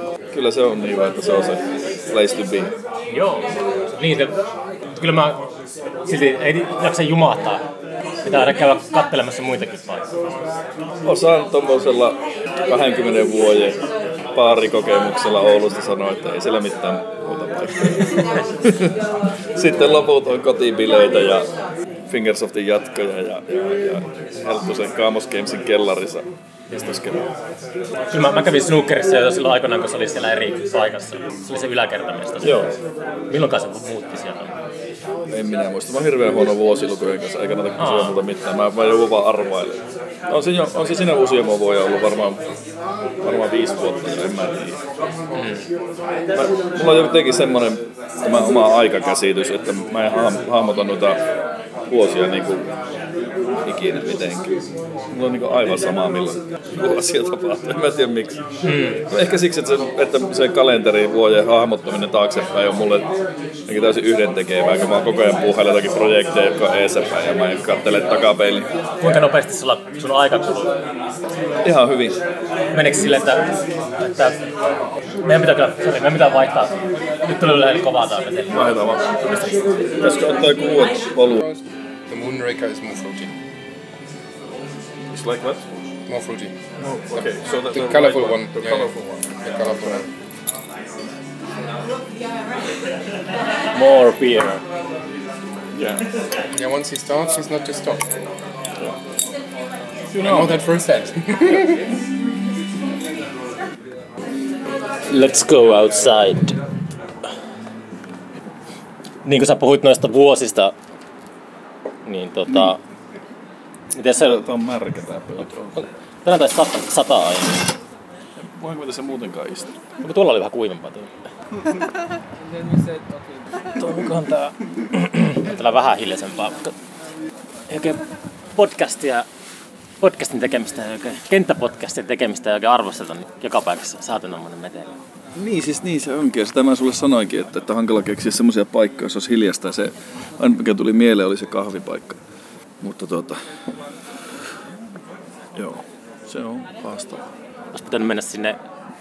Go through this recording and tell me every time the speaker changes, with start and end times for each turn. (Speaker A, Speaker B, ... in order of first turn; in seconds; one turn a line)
Speaker A: 0.3-2.8
Speaker B: 3.1-4.4
Speaker B: 4.9-5.4
Speaker B: 6.1-7.6
Speaker B: 8.2-10.1
Speaker A: 11.0-13.8
Speaker A: 14.3-21.5
Speaker B: 17.9-18.4
Speaker A: 22.1-27.3
Speaker B: 28.1-32.7
Speaker A: 32.4-32.7
Speaker B: 33.3-34.5
Speaker A: 35.3-42.4
Speaker B: 37.8-38.2
Speaker A: 43.2-44.8
Speaker B: 45.4-45.7
Speaker A: 46.3-51.2
Speaker A: 51.9-52.7
Speaker A: 53.6-58.4
Speaker B: 58.7-59.0
Speaker A: 59.1-63.1
Speaker A: 63.7-68.7
Speaker B: 69.0-70.8
Speaker A: 71.6-72.2
Speaker B: 72.7-74.4
Speaker B: 75.2-80.0
Speaker A: 78.5-79.0
Speaker A: 80.0-81.4
Speaker C: 81.5-83.3
Speaker A: 85.1-85.7
Speaker C: 86.1-88.9
Speaker A: 86.8-89.3
Speaker C: 89.4-90.1
Speaker B: 93.7-94.6
Speaker A: 95.8-96.0
Speaker C: 96.5-98.1
Speaker C: 100.2-101.8
Speaker A: 100.2-100.5
Speaker B: 105.1-106.6
Speaker B: 109.2-110.8
Speaker B: 112.1-112.8
Speaker A: 112.5-112.8
Speaker B: 113.9-114.4
Speaker A: 114.2-115.9
Speaker B: 115.8-117.8
Speaker A: 118.4-119.8
Speaker B: 120.0-121.1
Speaker A: 123.8-124.3
Speaker B: 123.8-126.8
Speaker B: 127.7-128.0
Speaker B: 128.5-129.3
Speaker B: 130.0-134.9
Speaker A: 135.3-142.2
Speaker A: 142.8-143.6
Speaker A: 145.6-147.3
Speaker B: 147.7-148.6